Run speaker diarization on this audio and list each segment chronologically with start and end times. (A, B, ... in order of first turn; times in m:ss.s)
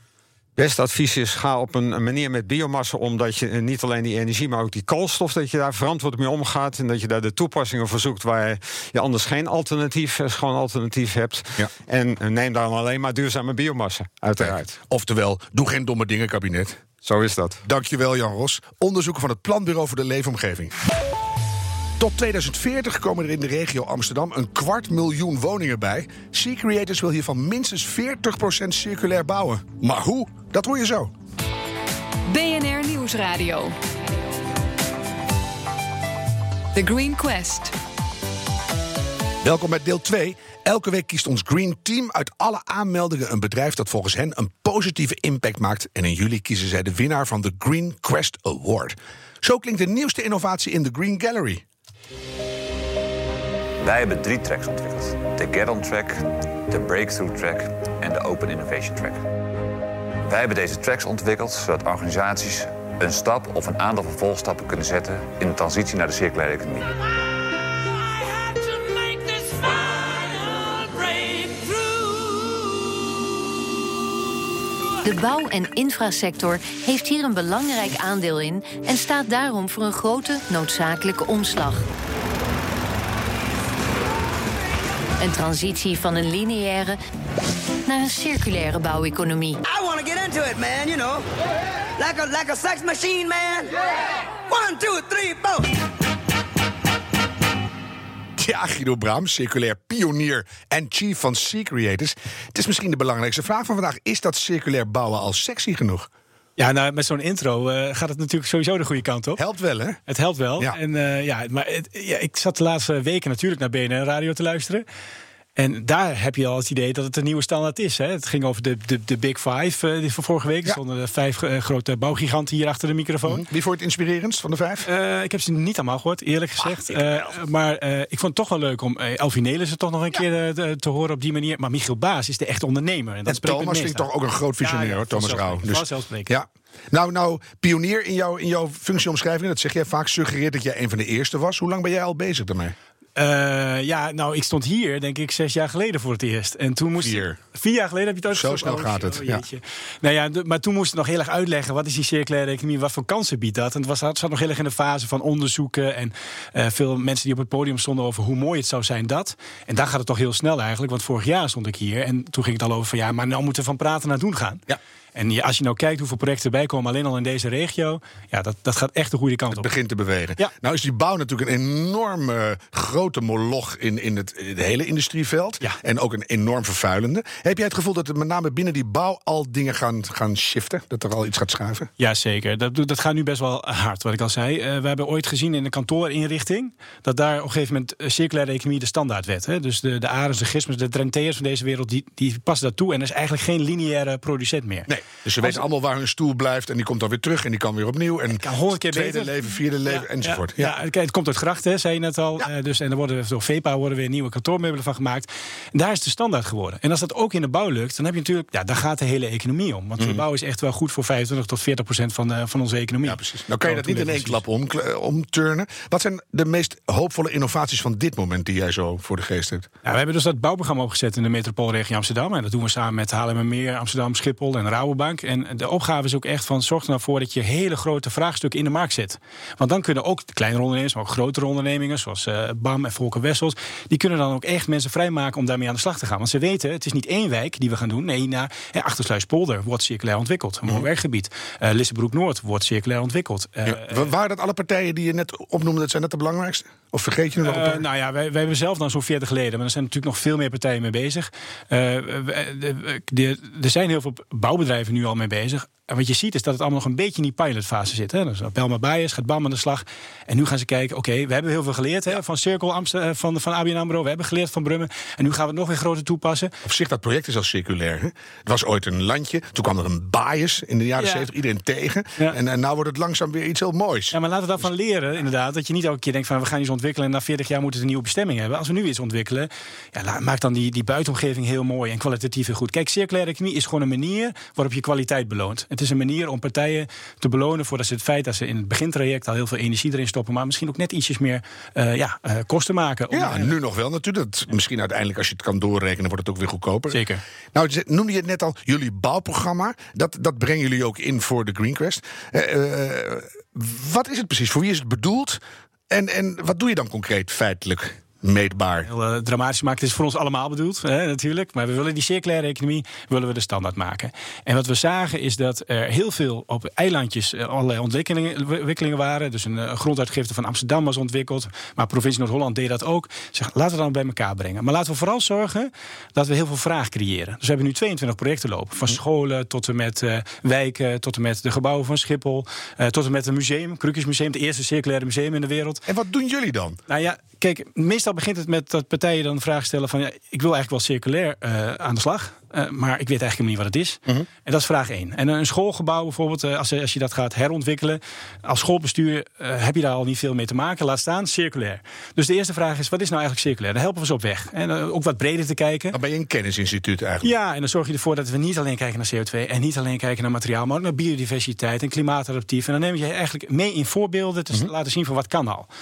0:00.6-0:14.8 A
0:14.4-0:16.8 B
0:17.0-0:17.6 A
0:17.6-0:20.7 B
0:22.0-0:31.1 B
0:32.3-0:33.8 C
0:36.7-0:37.8 C
0:39.4-0:51.6 B
0:53.8-0:59.3 D
1:00.3-1:07.0 D
1:08.4-1:12.1 C
1:15.0-1:21.9 E
1:25.2-1:27.0 E
1:27.9-1:29.6 E
1:29.7-1:31.3 F
1:32.0-1:35.7 F
1:38.4-1:46.1 B
1:46.6-1:49.4 G
1:49.4-1:50.0 B
1:50.1-1:54.8 G
1:55.6-2:03.4 G
2:03.2-2:04.9 B
2:04.8-2:14.1 G
2:06.6-2:07.0 B
2:13.3-2:22.8 B
2:14.6-2:16.4 G
2:23.2-2:44.6 G
2:27.0-2:27.4 B
2:28.3-2:29.4 B
2:45.2-2:49.7 G
2:49.5-3:01.9 B
3:02.0-3:14.9 G
3:14.9-3:20.7 B
3:18.3-3:34.4 G
3:33.0-3:39.7 B
3:39.8-4:04.1 G
4:03.6-4:07.8 B
4:07.4-4:26.5 G
4:26.6-4:34.2 B
4:31.0-4:31.3 G
4:34.1-4:53.6 G
4:53.1-5:08.9 B
4:56.9-4:57.2 G
5:08.9-5:35.8 G
5:35.9-5:36.8 B
5:36.9-5:56.0 G
5:55.9-5:57.3 B
5:57.2-6:05.7 G